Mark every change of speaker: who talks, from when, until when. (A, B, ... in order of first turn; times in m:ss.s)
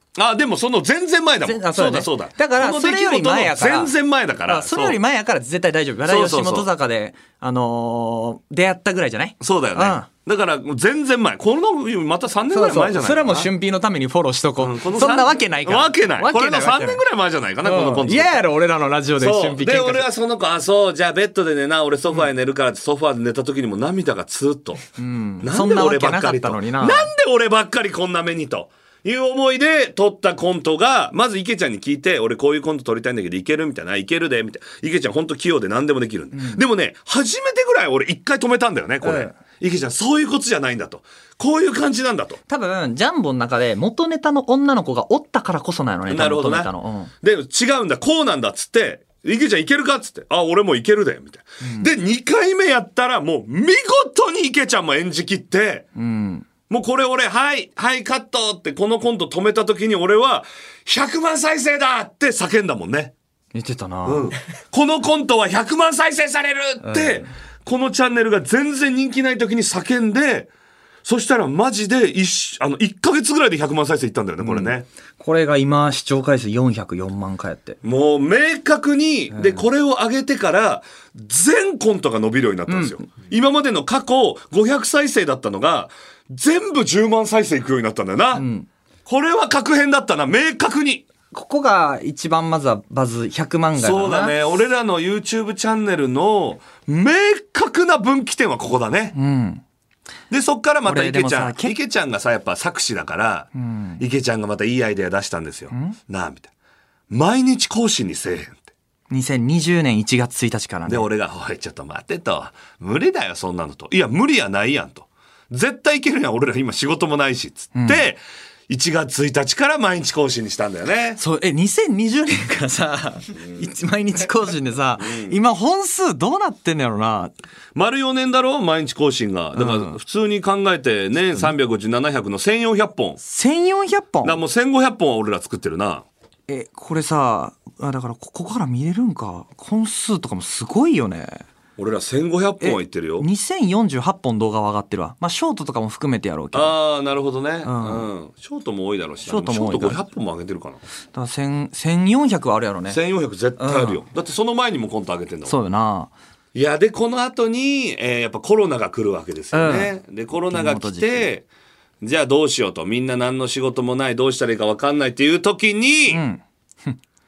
0:00.2-0:05.0 A
0:01.4-0:03.9 B
0:04.5-0:10.1 B
0:06.1-0:06.7 A
0:09.4-0:13.5 A
0:12.5-0:17.0 B
0:14.6-0:18.5 A
0:17.6-0:20.1 B
0:19.2-0:24.8 A
0:25.0-0:27.1 B
0:25.4-0:42.4 A
0:36.3-0:36.6 B
0:39.0-0:39.3 B
0:42.5-0:47.1 B
0:46.1-0:46.7 A
0:47.2-0:55.9 A
0:51.6-0:51.9 B
0:56.0-0:56.5 B
0:56.7-1:03.1 A
1:03.5-1:04.3 B
1:04.0-1:10.5 A
1:06.8-1:07.3 B
1:11.0-1:14.9 A
1:14.4-1:17.8 B
1:17.8-1:28.5 A
1:19.3-1:19.6 B
1:22.7-1:23.0 B
1:28.4-1:28.7 B
1:29.1-1:31.1 A
1:31.3-1:34.3 B
1:33.8-1:39.2 A
1:39.2-1:39.6 B
1:40.3-1:46.5 A
1:40.9-1:41.7 B
1:43.6-1:44.0 B
1:45.7-1:46.0 B
1:47.1-1:48.6 A
1:49.1-1:51.1 B
1:50.9-2:01.2 A
1:57.8-1:58.0 B
2:01.2-2:07.3 B
2:05.0-2:05.4 A
2:07.8-2:13.2 A
2:09.6-2:10.0 B
2:13.2-2:14.4 B
2:14.2-2:16.1 A
2:16.5-2:21.4 B
2:21.8-2:23.3 A
2:22.6-2:26.8 B
2:26.5-2:30.8 A
2:27.6-2:28.1 B
2:29.3-2:30.0 B
2:31.1-2:33.0 B
2:32.9-2:35.6 A
2:33.6-2:34.0 B
2:35.5-2:36.1 B
2:36.5-2:41.5 A
2:39.5-2:39.9 B
2:40.5-2:41.3 B
2:42.0-2:46.2 A
2:46.1-2:47.0 B